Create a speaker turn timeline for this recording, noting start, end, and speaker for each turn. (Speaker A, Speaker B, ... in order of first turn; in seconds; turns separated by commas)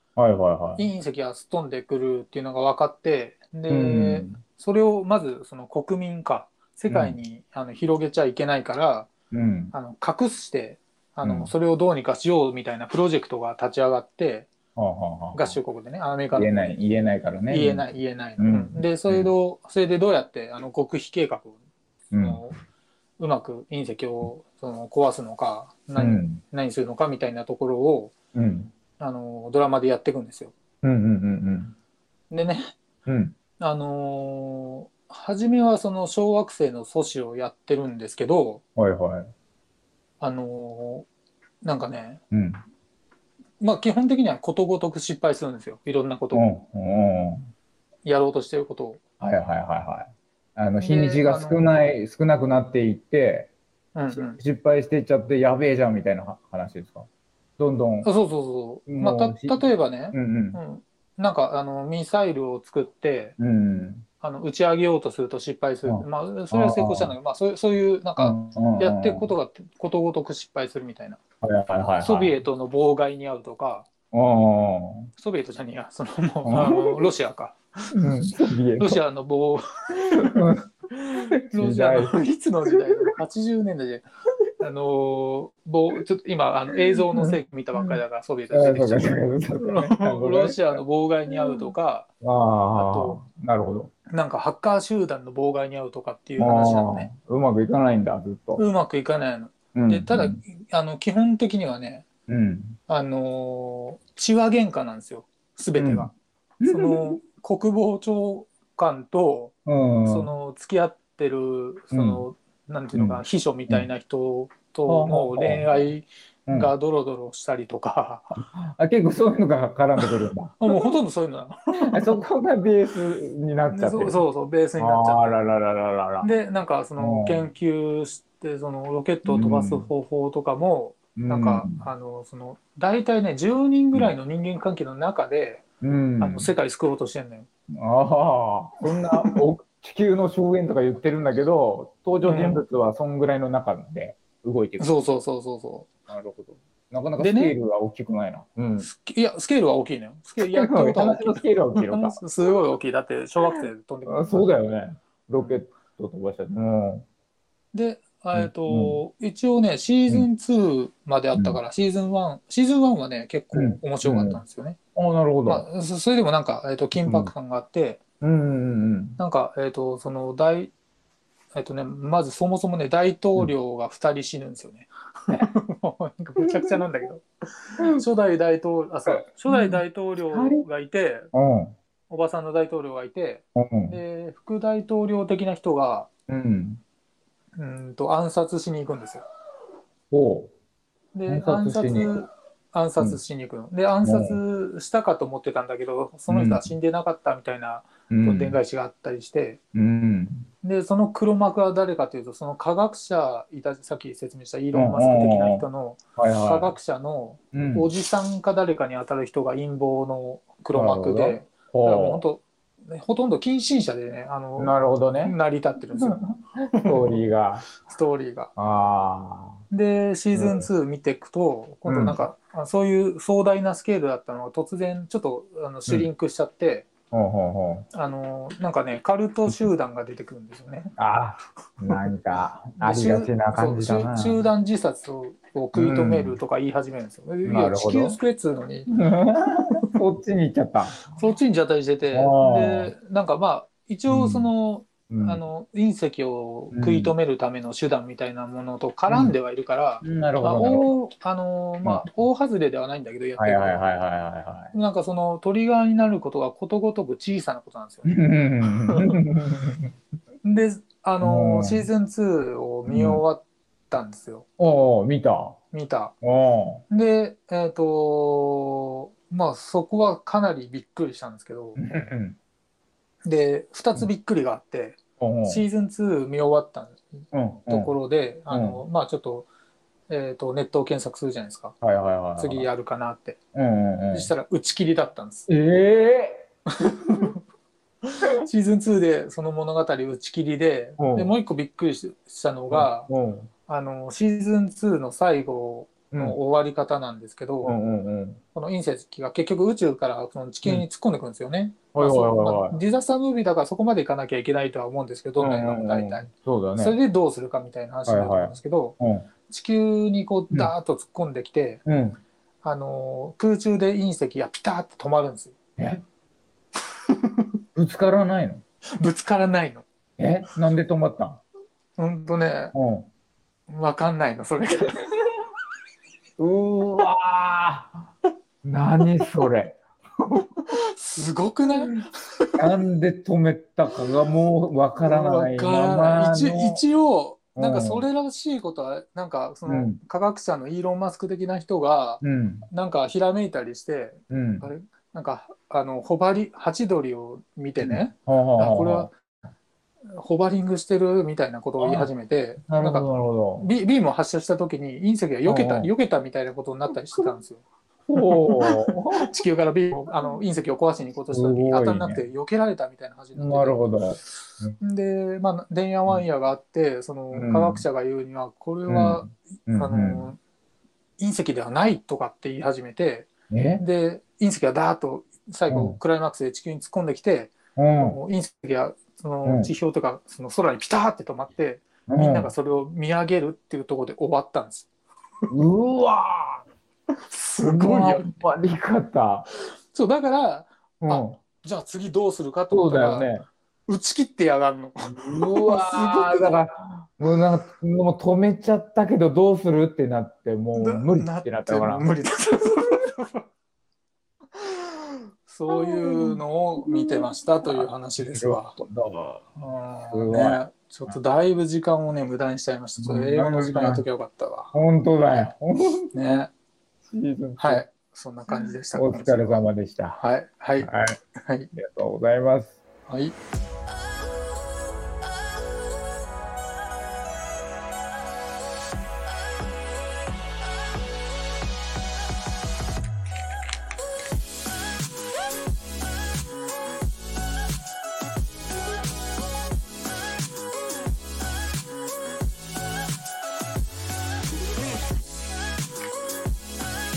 Speaker A: 0.2-0.9, Speaker B: 0.8-9.1, Speaker A: 3.7-4.4, Speaker A: 6.9-7.2, Speaker A: 9.3-9.7, Speaker B: 9.7-14.5, Speaker A: 11.2-11.5, Speaker A: 14.8-15.6, Speaker B: 15.3-16.8, Speaker A: 16.3-17.9, Speaker B: 17.5-21.6, Speaker A: 18.4-19.3, Speaker A: 22.1-22.4, Speaker B: 22.2-22.6, Speaker B: 23.2-28.1, Speaker A: 25.9-26.4, Speaker A: 28.3-28.7, Speaker B: 29.0-30.5, Speaker A: 30.8-31.7, Speaker B: 32.3-32.7, Speaker A: 33.0-33.3, Speaker B: 33.6-38.6, Speaker A: 38.8-39.3, Speaker B: 40.2-41.1, Speaker B: 41.6-42.2, Speaker A: 42.3-42.6, Speaker B: 43.6-46.5, Speaker A: 46.3-47.5, Speaker B: 48.0-49.0, Speaker A: 49.2-53.5, Speaker B: 50.8-51.7, Speaker B: 53.9-54.4, Speaker A: 54.1-57.1, Speaker A: 57.6-58.1, Speaker B: 58.0-63.4, Speaker A: 58.9-60.6, Speaker A: 63.4-64.0, Speaker B: 64.2-71.2, Speaker A: 65.8-67.1, Speaker A: 68.2-69.3, Speaker A: 71.4-72.4, Speaker B: 72.0-73.9, Speaker A: 74.1-75.1, Speaker B: 75.2-77.6, Speaker A: 76.5-77.0, Speaker A: 77.9-79.0, Speaker B: 78.8-80.3, Speaker A: 80.1-82.1, Speaker B: 81.5-84.0, Speaker B: 84.6-92.1, Speaker A: 86.9-88.0, Speaker A: 88.5-91.7, Speaker A: 92.2-93.9, Speaker B: 92.8-93.2, Speaker B: 94.1-97.1, Speaker A: 96.4-98.6, Speaker B: 98.6-102.0, Speaker A: 99.7-100.4, Speaker A: 102.3-102.8, Speaker B: 102.9-106.1, Speaker A: 105.8-106.1, Speaker A: 106.6-107.2, Speaker B: 106.6-109.5, Speaker A: 109.7-110.3, Speaker B: 110.0-118.3, Speaker A: 111.9-112.2, Speaker A: 112.9-113.9, Speaker A: 114.9-115.9, Speaker A: 116.5-116.7, Speaker A: 118.4-120.9, Speaker B: 120.0-122.2, Speaker A: 121.8-124.2, Speaker B: 123.7-125.4, Speaker A: 124.8-126.3, Speaker B: 126.2-135.6, Speaker A: 127.0-127.5, Speaker A: 129.2-129.9, Speaker A: 131.2-131.8, Speaker A: 135.8-136.5, Speaker B: 136.2-137.5, Speaker A: 137.8-144.8, Speaker B: 138.9-139.4, Speaker B: 142.2-142.6, Speaker B: 144.8-145.9, Speaker A: 146.1-148.9, Speaker B: 147.2-147.5, Speaker B: 148.8-154.5, Speaker A: 150.5-152.2, Speaker A: 154.1-157.0, Speaker B: 157.7-164.8, Speaker A: 158.3-159.0, Speaker A: 161.3-161.6, Speaker A: 163.5-164.4, Speaker A: 164.9-165.7, Speaker B: 165.5-168.0, Speaker A: 167.0-167.3, Speaker A: 168.2-169.2, Speaker B: 169.2-170.7, Speaker B: 171.5-177.2, Speaker A: 176.5-176.8, Speaker B: 177.9-181.3, Speaker A: 179.1-180.7, Speaker A: 181.3-181.7, Speaker B: 182.1-186.1, Speaker A: 183.6-184.0, Speaker A: 186.3-186.8, Speaker B: 187.6-189.2, Speaker A: 190.1-190.5, Speaker B: 191.1-199.6, Speaker A: 191.3-192.2, Speaker A: 194.0-194.4, Speaker A: 196.3-196.7, Speaker A: 198.1-198.6, Speaker A: 199.7-200.5, Speaker B: 200.6-216.2, Speaker A: 204.7-205.6, Speaker A: 206.2-206.7, Speaker A: 207.5-207.9, Speaker A: 210.7-212.2, Speaker A: 214.6-215.3, Speaker A: 216.7-217.7, Speaker B: 216.8-217.1, Speaker B: 217.8-218.5, Speaker A: 218.6-219.6, Speaker B: 219.7-226.9, Speaker A: 220.3-220.7, Speaker A: 221.8-222.2, Speaker A: 227.1-227.8, Speaker B: 227.9-230.9, Speaker A: 231.0-234.4, Speaker B: 232.8-238.9, Speaker A: 235.7-236.4, Speaker A: 237.4-238.2, Speaker A: 238.9-241.0, Speaker B: 241.1-253.8, Speaker A: 242.1-242.9, Speaker A: 244.1-244.5, Speaker A: 245.1-245.4, Speaker A: 246.7-247.1, Speaker A: 249.1-249.3, Speaker A: 250.0-250.9, Speaker A: 251.8-252.1, Speaker A: 253.4-254.7, Speaker B: 254.7-259.1, Speaker A: 258.0-259.9, Speaker B: 260.4-264.4, Speaker A: 261.2-261.9, Speaker A: 262.9-263.2, Speaker A: 264.6-265.6, Speaker B: 265.7-266.1, Speaker A: 266.2-266.8, Speaker B: 266.9-271.8, Speaker A: 271.8-272.4, Speaker B: 273.2-279.5, Speaker A: 275.2-275.6, Speaker A: 277.3-277.9, Speaker A: 278.5-278.8, Speaker B: 280.1-281.8, Speaker A: 281.8-282.7, Speaker B: 282.4-283.4, Speaker A: 283.5-284.3, Speaker B: 284.1-285.5, Speaker A: 285.5-286.4, Speaker B: 286.8-287.4, Speaker B: 288.0-293.1, Speaker A: 291.0-291.3, Speaker A: 292.7-293.5, Speaker B: 293.7-297.7, Speaker A: 297.6-298.4, Speaker B: 298.5-308.9, Speaker A: 301.9-302.8, Speaker A: 305.4-307.0, Speaker A: 308.1-309.3, Speaker B: 309.5-311.8, Speaker A: 311.9-312.2, Speaker B: 312.6-315.5, Speaker A: 315.8-316.0, Speaker B: 317.1-317.5, Speaker A: 317.7-318.6, Speaker B: 319.0-319.8, Speaker A: 320.2-321.4, Speaker B: 322.0-322.7, Speaker A: 322.7-323.1, Speaker B: 323.7-325.1, Speaker A: 326.4-328.1, Speaker A: 328.6-330.5, Speaker B: 329.2-329.5, Speaker B: 330.6-332.6, Speaker A: 331.7-332.0, Speaker A: 332.6-336.8, Speaker B: 335.0-349.1, Speaker A: 337.6-338.1, Speaker A: 339.7-340.0, Speaker A: 342.2-342.7, Speaker A: 344.3-344.7, Speaker A: 347.8-349.1, Speaker B: 350.1-353.1, Speaker A: 351.8-352.1, Speaker A: 352.6-353.7, Speaker B: 353.6-357.6, Speaker A: 355.4-355.9, Speaker A: 358.1-359.4, Speaker B: 358.1-363.9, Speaker A: 361.3-362.2, Speaker A: 363.4-364.7, Speaker B: 364.8-370.4, Speaker A: 367.3-367.9, Speaker A: 368.9-370.3, Speaker B: 371.2-384.9, Speaker A: 373.5-373.8, Speaker A: 375.7-376.0, Speaker A: 377.8-378.2, Speaker A: 379.4-379.7, Speaker A: 382.1-382.5, Speaker A: 385.5-386.6, Speaker B: 387.3-388.3, Speaker A: 387.6-389.5, Speaker B: 389.9-393.3, Speaker A: 391.0-391.4, Speaker A: 392.7-393.4, Speaker B: 393.9-396.6, Speaker A: 395.0-402.1, Speaker B: 400.7-403.4, Speaker B: 404.5-408.8, Speaker A: 405.7-409.4, Speaker B: 409.6-414.7, Speaker A: 410.1-411.1, Speaker A: 413.0-414.0, Speaker A: 414.7-416.1, Speaker B: 416.1-416.5, Speaker A: 417.1-417.8, Speaker B: 417.6-421.7, Speaker A: 418.5-420.2, Speaker A: 420.8-421.2, Speaker A: 421.7-422.8, Speaker B: 423.1-423.4